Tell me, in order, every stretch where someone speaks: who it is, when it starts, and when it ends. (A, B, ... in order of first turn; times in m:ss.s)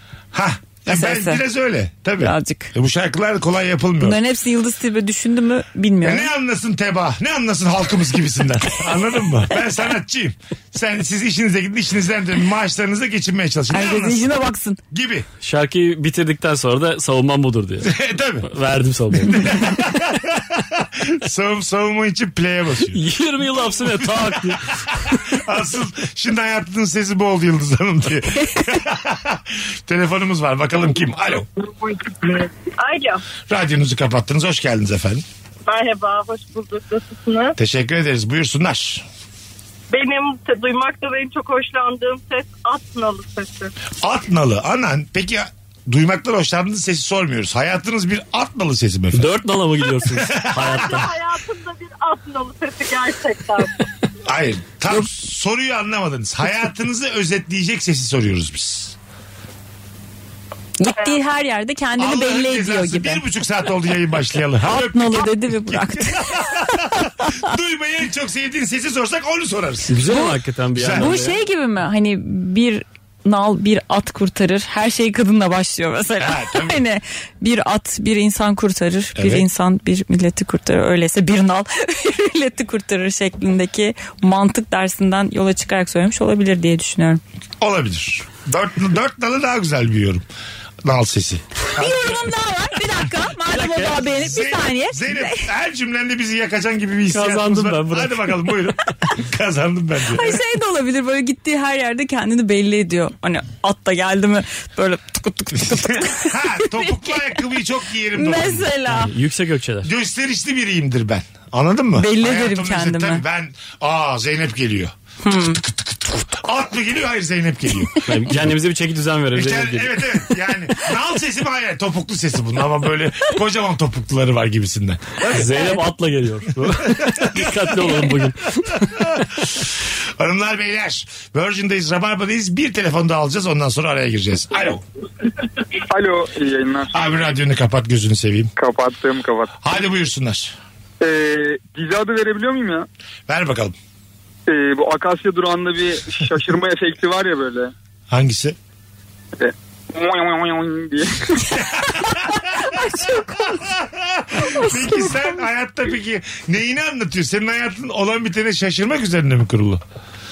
0:00.3-0:04.2 A
0:00.9-0:01.4 B
0:02.2-0:02.7 B
0:04.0-0:06.3 B
0:06.0-0:14.3 A
0:13.7-0:14.8 B
0:14.9-0:15.3 A
0:15.4-0:19.8 C
0:17.8-0:18.5 A
0:19.2-0:23.0 A
0:22.9-0:25.4 C
0:23.6-0:31.5 A
0:31.6-0:33.2 D
0:33.5-0:35.2 A
0:35.7-0:37.6 D
0:37.6-0:39.0 A
0:39.9-0:43.7 D
0:44.0-0:49.3 A
0:49.1-0:51.1 C
0:50.0-0:51.0 A
0:50.7-0:53.8 D
0:54.2-0:59.0 A
1:00.8-1:03.2 B
1:02.0-1:10.0 A
1:04.6-1:07.5 B
1:09.9-1:11.4 C
1:10.1-1:10.3 B
1:10.8-1:11.2 A
1:11.0-1:27.2 B
1:16.2-1:16.8 A
1:19.2-1:19.5 A
1:27.6-1:30.2 A
1:30.8-1:32.2 A
1:31.7-1:35.5 B
1:33.6-1:34.0 C
1:34.0-1:40.4 A
1:37.1-1:38.6 C
1:40.1-1:47.4 B
1:45.6-1:48.8 A
1:48.2-1:49.1 B
1:48.9-1:49.9 C
1:49.8-1:58.6 A
1:52.0-1:53.2 B
1:55.2-1:55.6 B
1:58.0-2:00.2 C
1:59.3-2:05.7 A
2:05.3-2:09.2 C
2:06.8-2:07.6 A
2:09.0-2:14.8 A
2:15.9-2:17.0 E
2:16.9-2:18.5 A
2:18.6-2:19.6 E
2:19.6-2:20.6 A
2:21.0-2:22.9 E
2:23.3-2:23.8 A
2:24.5-2:27.7 E
2:28.1-2:28.6 A
2:29.4-2:31.3 E
2:31.5-2:33.7 B
2:31.6-2:32.7 A
2:33.4-2:39.8 A
2:34.4-2:35.4 B